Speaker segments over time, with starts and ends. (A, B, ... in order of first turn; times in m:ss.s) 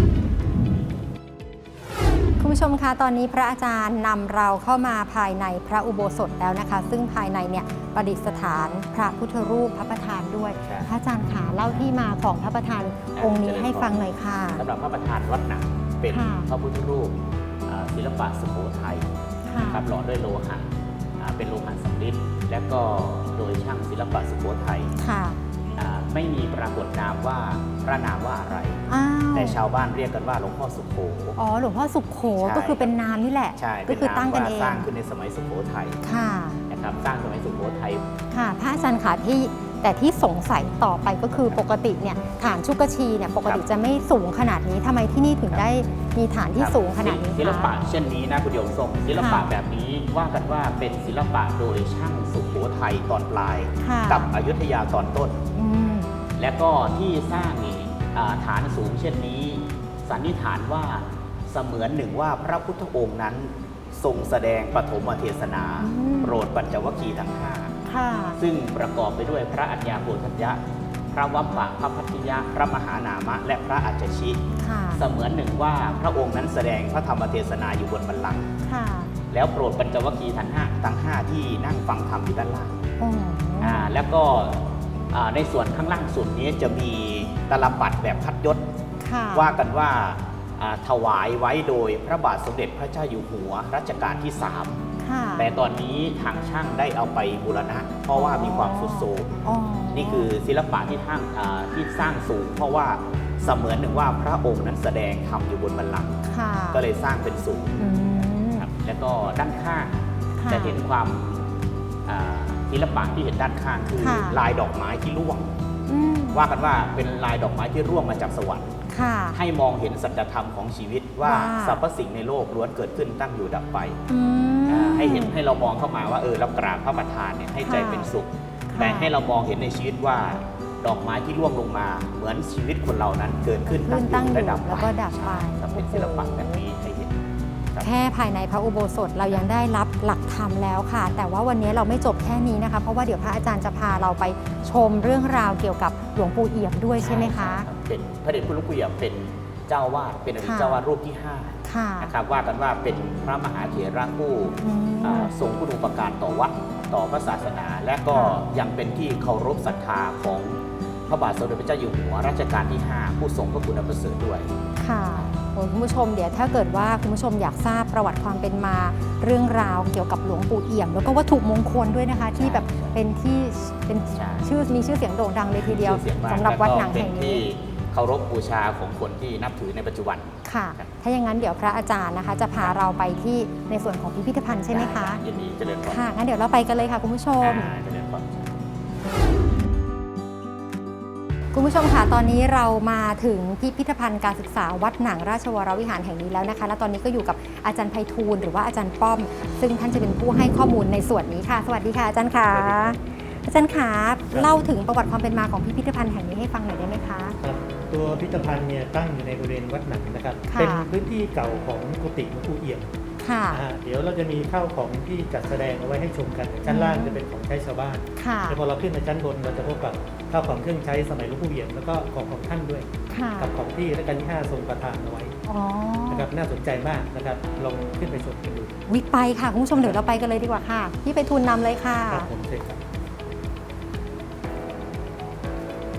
0:02.4-0:14.6 A
0:10.6-0:10.9 B
0:13.1-0:14.0 B
0:14.6-0:24.9 B
0:16.1-0:16.5 A
0:19.5-0:19.8 A
0:25.0-0:25.4 A
0:25.8-0:28.8 B
0:28.9-0:29.6 A
0:29.3-0:31.4 B
0:31.4-0:34.9 A
0:32.4-0:32.9 B
0:33.6-0:36.0 B
0:36.0-0:36.6 A
0:36.7-0:38.1 B
0:38.3-0:47.7 A
0:41.3-0:41.6 B
0:46.6-0:55.4 B
0:49.2-0:49.5 A
0:53.8-0:54.3 A
0:55.5-0:56.1 A
0:56.4-1:07.7 B
1:05.8-1:06.4 A
1:07.8-1:08.4 A
1:08.4-1:14.4 B
1:14.6-1:15.0 A
1:14.9-1:18.5 B
1:18.6-1:19.1 A
1:19.3-1:22.8 B
1:23.0-1:23.9 A
1:23.6-1:28.6 B
1:29.0-1:29.5 A
1:29.3-1:34.8 B
1:35.0-1:35.5 A
1:35.4-1:47.9 B
1:38.1-1:40.3 A
1:46.2-1:46.8 A
1:47.8-1:48.7 A
1:48.6-1:55.6 B
1:50.4-1:50.8 A
1:54.0-1:54.4 A
1:55.9-1:56.4 A
1:56.3-1:58.8 B
1:58.9-1:59.4 A
1:59.3-2:04.0 B
2:01.2-2:01.8 A
2:04.1-2:05.4 A
2:04.7-2:17.2 B
2:07.6-2:08.1 A
2:08.7-2:09.1 A
2:13.7-2:16.6 A
2:17.7-2:18.0 B
2:17.8-2:27.7 A
2:27.0-2:44.6 B
2:30.4-2:30.8 A
2:31.6-2:32.1 A
2:34.6-2:35.3 A
2:38.1-2:38.4 A
2:44.8-2:57.4 A
2:52.3-2:52.9 B
2:54.1-2:54.5 B
2:55.5-3:00.9 B
3:00.4-3:05.2 A
3:04.7-3:06.0 B
3:05.8-3:07.7 A
3:07.4-3:08.7 B
3:11.5-3:27.4 A
3:22.5-3:23.0 C
3:27.4-3:32.9 C
3:30.5-3:30.9 A
3:33.2-3:33.6 A
3:33.5-3:42.9 C
3:36.7-3:37.2 A
3:38.2-3:38.6 A
3:43.1-3:43.5 A
3:43.4-3:45.4 C
3:45.5-3:46.3 A
3:46.1-3:48.7 C
3:48.9-3:52.3 A
3:52.1-3:52.8 C